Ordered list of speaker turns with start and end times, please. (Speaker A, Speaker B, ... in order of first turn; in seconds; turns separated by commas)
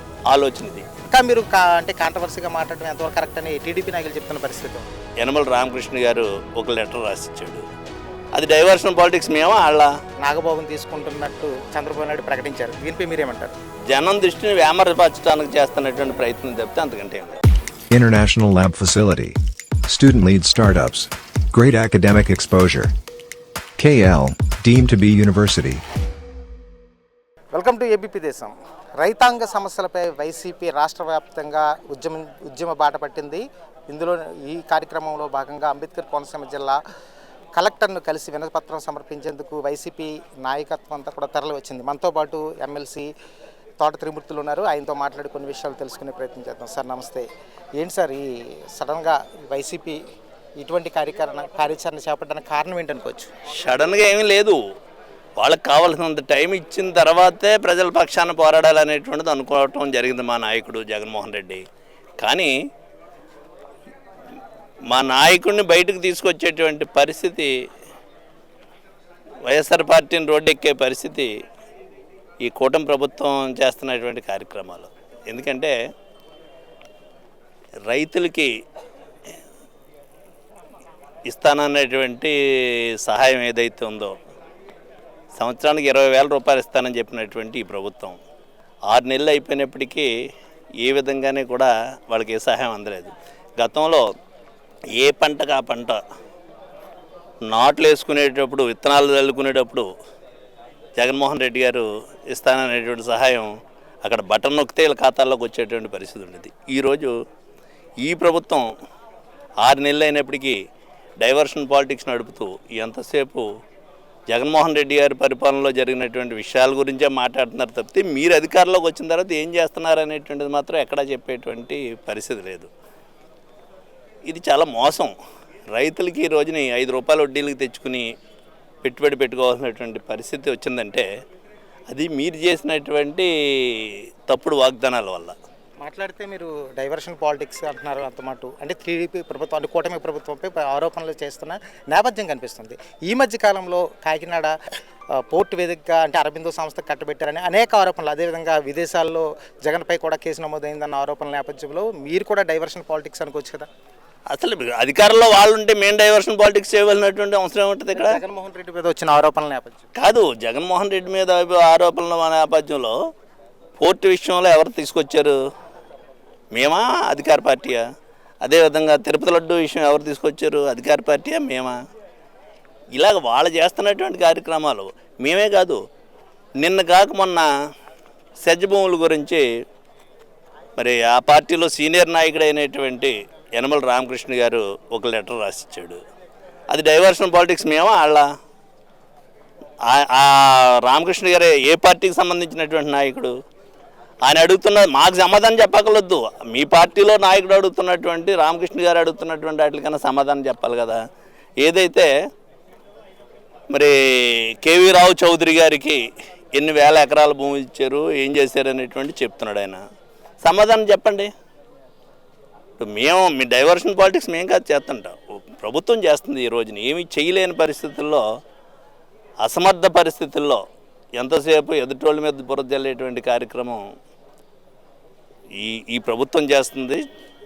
Speaker A: 0.3-0.9, Speaker B: 1.1-4.9, Speaker A: 5.2-7.6, Speaker A: 8.3-9.9, Speaker B: 10.2-13.5, Speaker A: 13.9-17.4, Speaker C: 17.9-22.9, Speaker C: 23.8-25.8, Speaker B: 27.5-36.8, Speaker B: 37.5-43.1, Speaker B: 43.8-47.2, Speaker B: 47.8-48.2, Speaker B: 48.8-50.0, Speaker B: 50.6-53.3, Speaker A: 53.5-54.6, Speaker A: 55.4-61.6, Speaker A: 62.2-62.5, Speaker A: 64.9-67.5, Speaker A: 69.5-71.3, Speaker A: 72.4-75.7, Speaker A: 77.9-78.5, Speaker A: 81.3-84.2, Speaker A: 85.4-88.2, Speaker A: 88.9-90.1, Speaker A: 90.8-94.1, Speaker A: 95.0-96.0, Speaker A: 97.5-99.8, Speaker A: 101.0-103.5, Speaker A: 104.0-107.1, Speaker A: 108.0-108.7, Speaker A: 109.6-110.5, Speaker A: 111.2-113.5, Speaker A: 114.3-122.7, Speaker A: 124.3-125.1, Speaker A: 125.7-128.1, Speaker A: 128.8-131.1, Speaker A: 131.9-135.3, Speaker B: 135.8-144.5, Speaker B: 145.3-153.7, Speaker A: 154.3-158.2, Speaker B: 157.9-159.9, Speaker A: 159.9-162.9, Speaker A: 163.8-165.3, Speaker A: 166.5-167.8, Speaker A: 168.4-171.8, Speaker A: 173.0-175.8, Speaker A: 176.6-177.5, Speaker A: 178.4-179.4, Speaker A: 180.8-186.0, Speaker A: 186.7-188.2, Speaker A: 189.9-193.3, Speaker A: 194.2-201.0, Speaker A: 201.6-202.1, Speaker A: 203.7-206.0, Speaker A: 206.6-209.8, Speaker A: 210.4-211.3, Speaker A: 212.8-218.2, Speaker A: 219.4-220.6, Speaker A: 221.2-223.8, Speaker A: 225.6-227.0